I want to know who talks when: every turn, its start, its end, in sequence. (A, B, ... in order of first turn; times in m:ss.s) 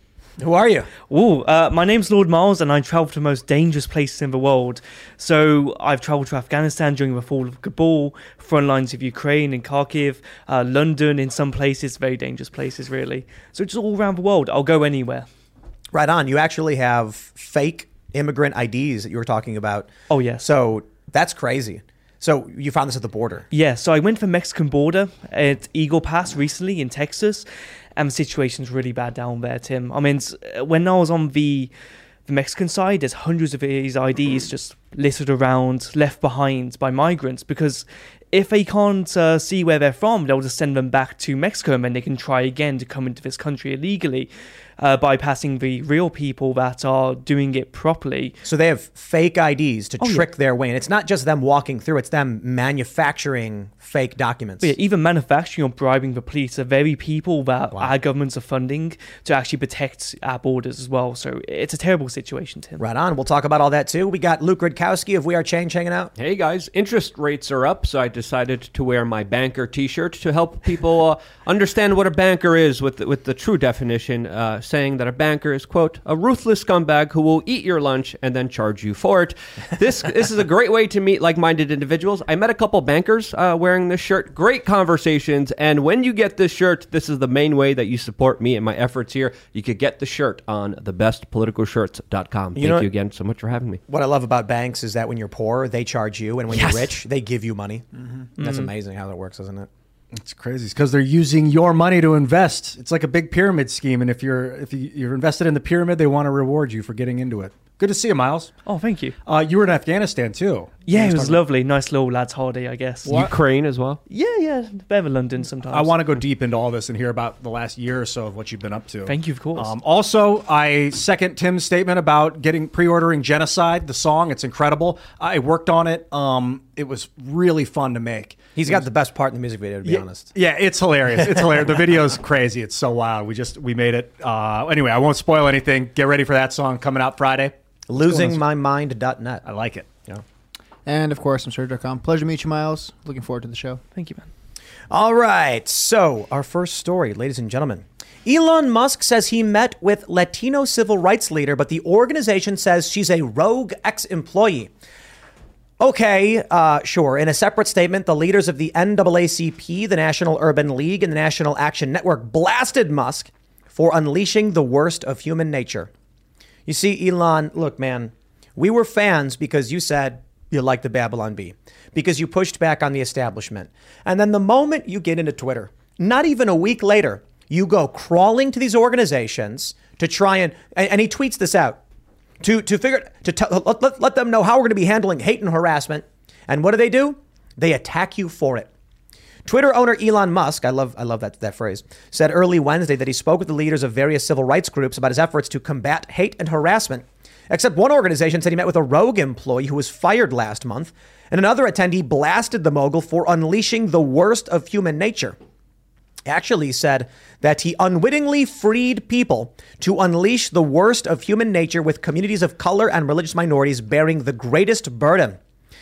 0:00.4-0:00.9 A
0:01.1-0:15.3 B
0:15.9-0:23.4 A
0:20.1-0:20.4 B
0:23.5-0:31.7 B
0:32.3-0:48.4 B
0:48.4-0:54.7 A
0:50.0-0:50.3 B
0:54.6-1:02.8 B
1:02.8-1:06.1 A
1:06.2-1:33.8 C
1:32.6-1:32.9 A
1:33.9-1:39.7 A
1:40.1-1:48.5 D
1:48.6-1:49.2 B
1:49.2-1:51.4 D
1:50.9-1:53.3 B
1:53.1-1:54.0 C
1:54.1-1:55.9 B
1:55.7-2:08.8 D
1:59.0-1:59.7 B
2:08.6-2:10.3 A
2:09.8-2:18.4 D
2:11.2-2:11.7 A
2:17.9-2:19.4 A
2:19.4-2:19.9 D
2:20.8-2:23.8 E
2:23.9-2:24.2 B
2:24.9-2:34.7 A
2:35.8-2:45.9 A
2:46.6-3:01.8 A
3:02.4-3:08.7 A
3:09.4-3:25.4 A
3:26.2-3:35.4 A